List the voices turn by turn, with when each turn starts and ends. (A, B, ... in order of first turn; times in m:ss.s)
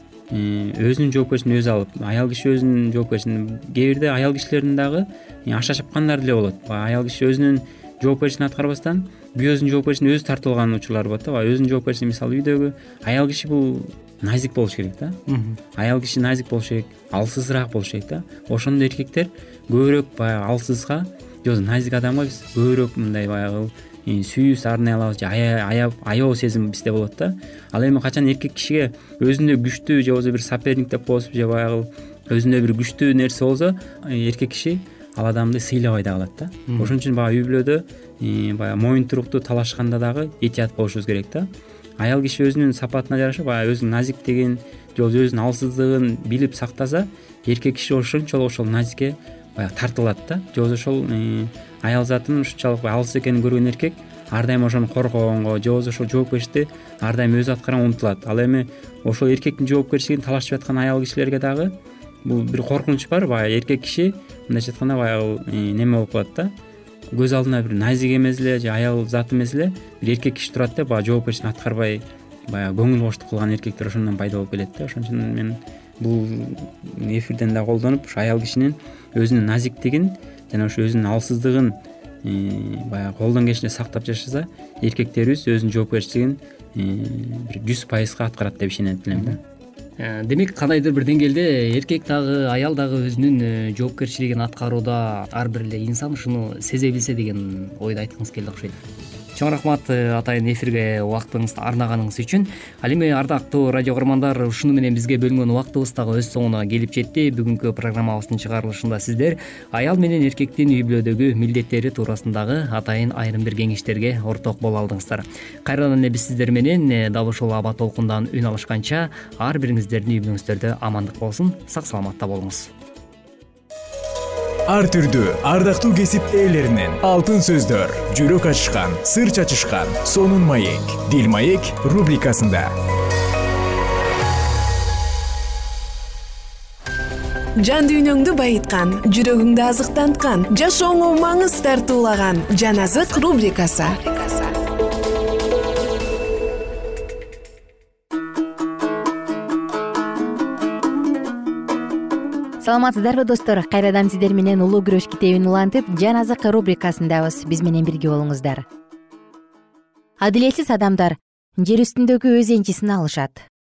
0:00.3-0:15.2 A
0:15.3-0:15.6 B
0:15.8-1:01.7 A
0:36.7-0:37.0 B
1:02.3-1:06.5 A
1:07.2-1:29.4 A
1:29.1-1:29.4 B
1:30.0-1:38.8 B
1:39.4-2:02.7 B
2:04.7-2:12.7 C
2:17.6-2:24.5 D
2:32.6-2:38.6 E
2:40.2-2:43.4 E